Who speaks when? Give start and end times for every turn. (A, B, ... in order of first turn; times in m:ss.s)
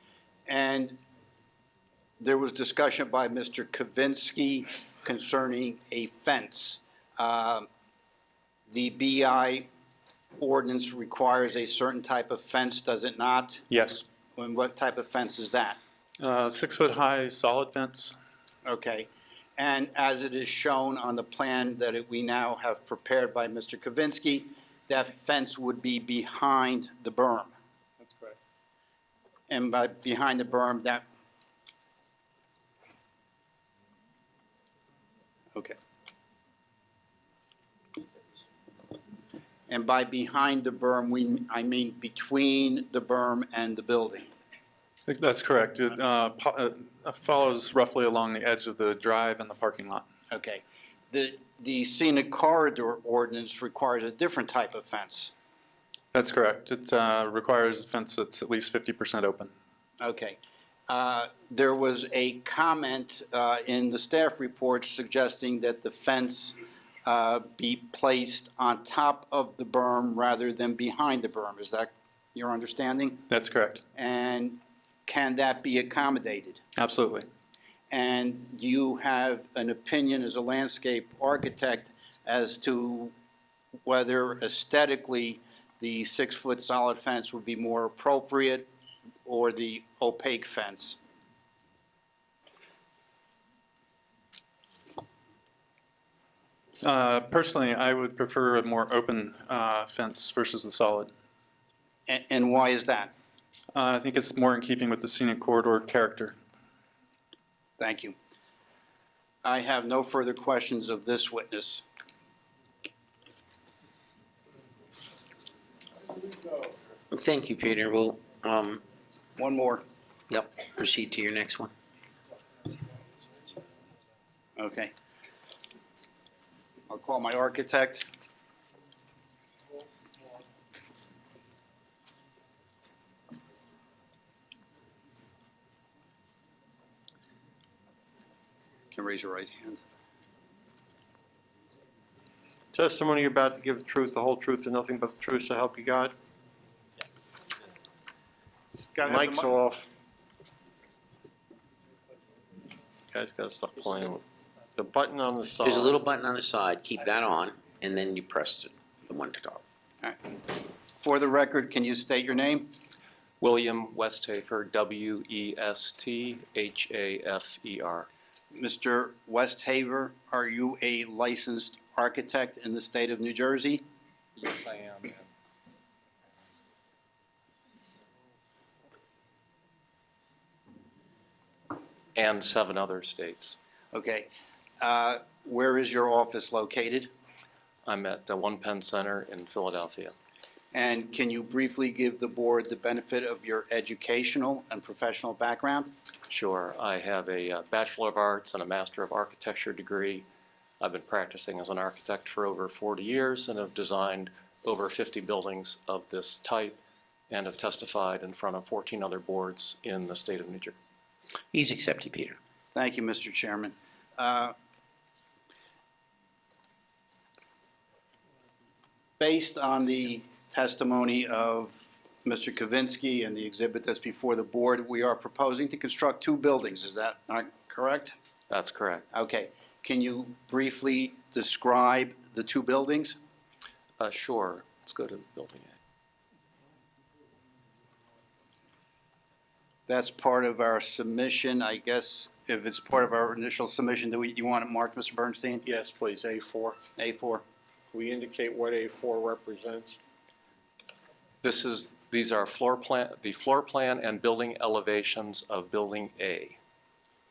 0:00.5-0:01.0 A
0:02.2-0:07.7 A
0:08.7-0:09.7 A
0:10.4-0:13.6 A
0:13.7-0:14.0 B
0:14.4-0:15.8 A
0:16.2-0:18.1 B
0:18.6-0:27.5 A
0:29.5-0:31.0 A
0:39.7-0:44.3 A
0:45.1-0:50.0 B
0:50.3-0:55.3 A
0:56.1-0:59.5 B
1:00.0-1:13.2 A
1:13.3-1:13.8 B
1:13.9-1:16.6 A
1:16.8-1:17.2 B
1:17.9-1:23.1 A
1:23.8-1:28.7 A
1:29.2-1:31.0 A
1:36.8-1:41.1 B
1:42.1-1:43.1 A
1:43.7-1:46.4 B
1:47.8-1:48.2 A
1:49.4-1:51.8 A
1:57.1-1:58.8 C
1:59.4-1:59.8 A
2:00.3-2:01.7 C
2:04.6-2:04.9 A
2:06.9-2:08.1 A
2:18.9-2:19.8 A
2:22.7-2:26.1 D
2:28.9-2:29.5 A
2:29.0-2:29.9 D
2:33.1-2:34.2 D
2:34.8-2:36.0 D
2:35.6-2:39.6 C
2:41.0-2:42.7 A
2:43.4-2:48.1 E
2:48.5-2:53.8 A
2:54.4-2:55.2 E
3:02.2-3:03.6 E
3:03.9-3:07.1 A
3:07.8-3:10.1 E
3:10.7-3:15.9 A
3:16.3-3:20.2 E
3:20.8-3:30.8 E
3:31.5-3:32.4 C
3:32.7-3:34.5 A
3:39.2-3:48.1 A
3:48.5-3:49.0 E
3:49.1-3:53.2 A
3:54.0-3:55.7 E
3:59.9-4:05.6 A
4:05.6-4:06.8 D
4:07.0-4:07.4 A
4:07.9-4:10.0 D
4:11.4-4:16.6 E